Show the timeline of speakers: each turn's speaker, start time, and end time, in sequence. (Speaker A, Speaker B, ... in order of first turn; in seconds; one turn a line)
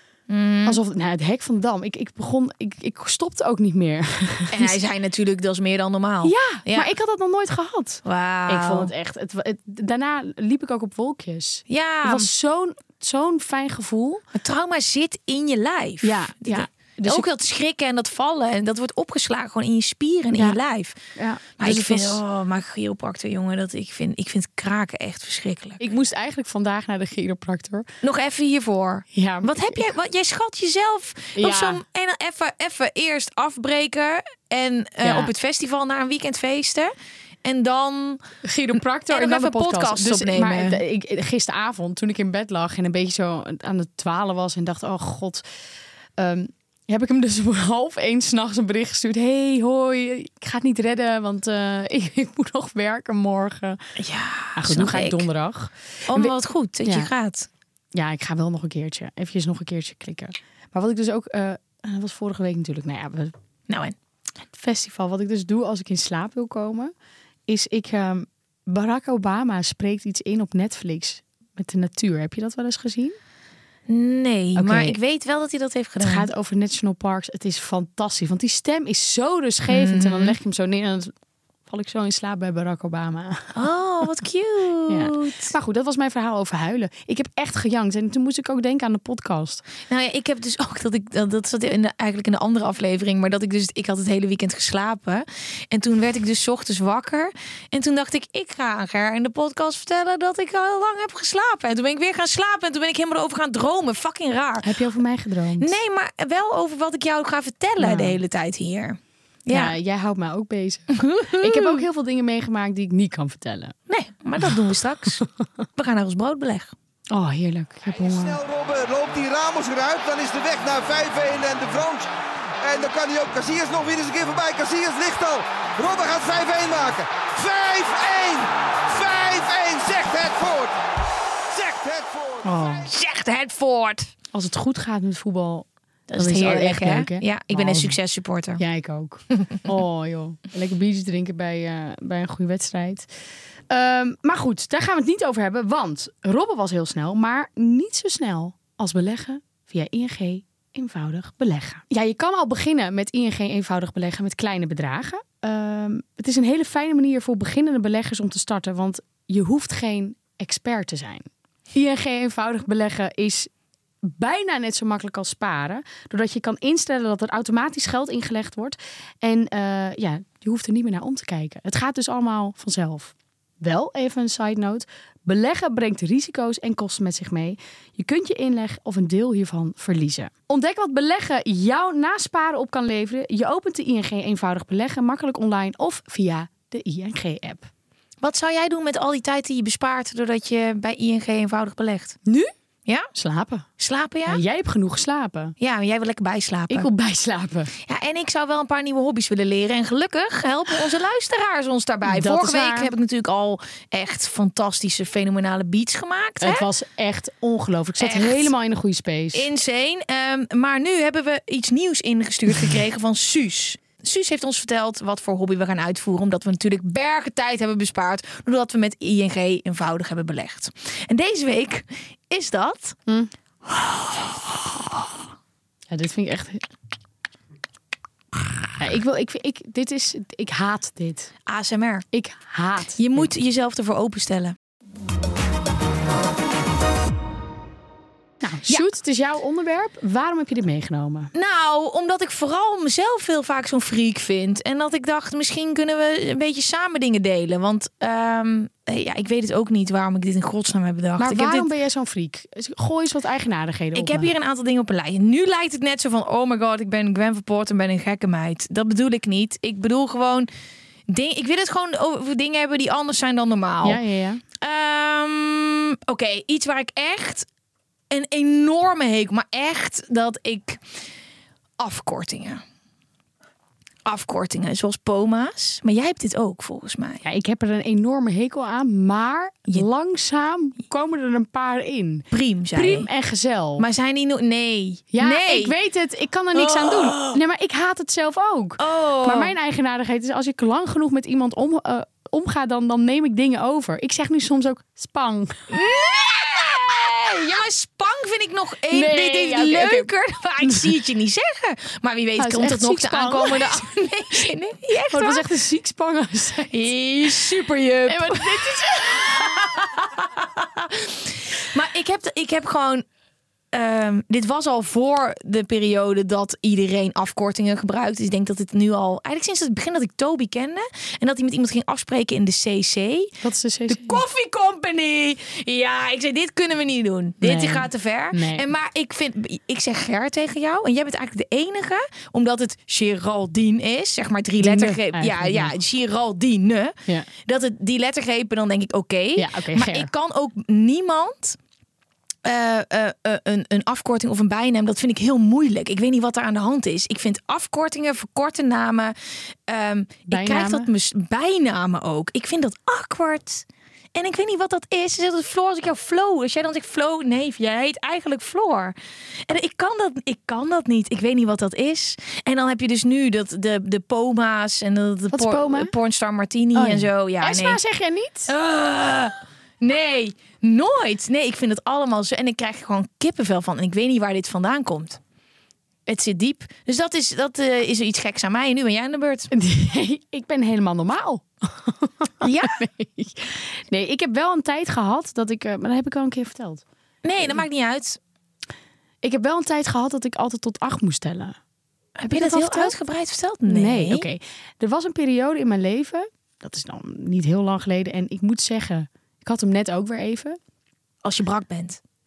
Speaker A: 0.3-0.8
Speaker B: 0.7-4.8
Speaker A: 4.5-6.9
Speaker B: 6.2-14.2
Speaker A: 8.1-8.9
Speaker A: 11.7-12.3
Speaker A: 14.3-21.0
Speaker B: 16.0-17.3
Speaker B: 20.3-20.6
Speaker B: 21.2-22.2
Speaker A: 21.6-25.8
Speaker B: 25.8-27.9
Speaker A: 28.0-36.9
Speaker B: 29.1-29.9
Speaker B: 31.4-31.8
Speaker B: 35.0-35.3
Speaker A: 37.5-38.2
Speaker B: 38.4-45.4
Speaker A: 39.1-40.8
Speaker B: 46.2-53.8
Speaker A: 54.0-55.3
Speaker B: 54.6-56.3
Speaker A: 56.1-57.5
Speaker B: 56.9-57.1
Speaker B: 58.0-63.3
Speaker A: 63.7-64.0
Speaker B: 64.5-66.9
Speaker B: 67.5-73.2
Speaker A: 73.9-76.3
Speaker B: 74.6-75.0
Speaker B: 76.0-81.1
Speaker A: 79.7-80.4
Speaker B: 81.7-83.5
Speaker A: 83.6-85.5
Speaker B: 84.9-89.7
Speaker A: 89.9-104.8
Speaker B: 104.6-105.8
Speaker A: 105.6-109.8
Speaker B: 107.8-108.2
Speaker B: 109.5-113.8
Speaker A: 110.9-111.8
Speaker A: 113.9-115.2
Speaker A: 115.8-116.7
Speaker B: 117.1-118.4
Speaker C: 117.9-122.1
Speaker C: 122.6-130.7
Speaker C: 131.5-132.9
Speaker B: 132.4-132.9
Speaker A: 132.9-134.1
Speaker B: 134.3-138.0
Speaker A: 136.1-138.6
Speaker B: 138.6-143.1
Speaker A: 139.3-139.7
Speaker B: 143.7-163.5
Speaker B: 164.0-187.7
Speaker A: 188.2-192.2
Speaker B: 193.2-193.7
Speaker A: 193.8-194.4
Speaker B: 194.3-195.6
Speaker A: 195.6-196.9
Speaker B: 196.7-197.7
Speaker A: 197.8-206.7
Speaker B: 202.1-202.9
Speaker B: 206.4-209.5
Speaker A: 208.0-208.5
Speaker A: 209.3-223.0
Speaker A: 223.7-224.5
Speaker B: 225.9-226.6
Speaker B: 228.8-231.3
Speaker A: 231.5-232.1
Speaker B: 232.1-233.3
Speaker A: 233.0-234.6
Speaker B: 238.4-241.3
Speaker A: 241.3-251.7
Speaker B: 251.2-254.3
Speaker A: 253.9-260.5
Speaker A: 261.1-264.0
Speaker B: 263.8-264.4
Speaker A: 264.6-267.5
Speaker A: 268.1-270.8
Speaker A: 271.8-272.6
Speaker A: 274.1-277.2
Speaker B: 277.2-283.9
Speaker A: 282.3-283.1
Speaker A: 283.8-285.7
Speaker B: 285.1-295.7
Speaker A: 286.6-287.4
Speaker A: 288.8-289.5
Speaker A: 295.7-305.5
Speaker B: 298.9-300.1
Speaker B: 300.6-300.9
Speaker B: 302.4-303.9
Speaker B: 305.1-306.9
Speaker A: 306.7-313.0
Speaker B: 308.1-309.6
Speaker A: 313.7-323.3
Speaker B: 323.4-324.2
Speaker A: 323.9-341.6
Speaker B: 327.4-328.7
Speaker B: 334.6-335.7
Speaker B: 339.4-340.1
Speaker A: 342.4-349.1
Speaker A: 349.7-359.0
Speaker B: 350.3-350.9
Speaker A: 359.5-367.8
Speaker B: 365.3-365.9
Speaker B: 366.8-368.5
Speaker A: 368.5-375.2
Speaker A: 376.1-379.5
Speaker B: 379.5-386.8
Speaker A: 382.4-382.8
Speaker A: 387.2-388.2
Speaker B: 389.2-391.6
Speaker A: 392.2-394.3
Speaker B: 392.3-392.9
Speaker B: 393.7-400.6
Speaker A: 401.2-402.0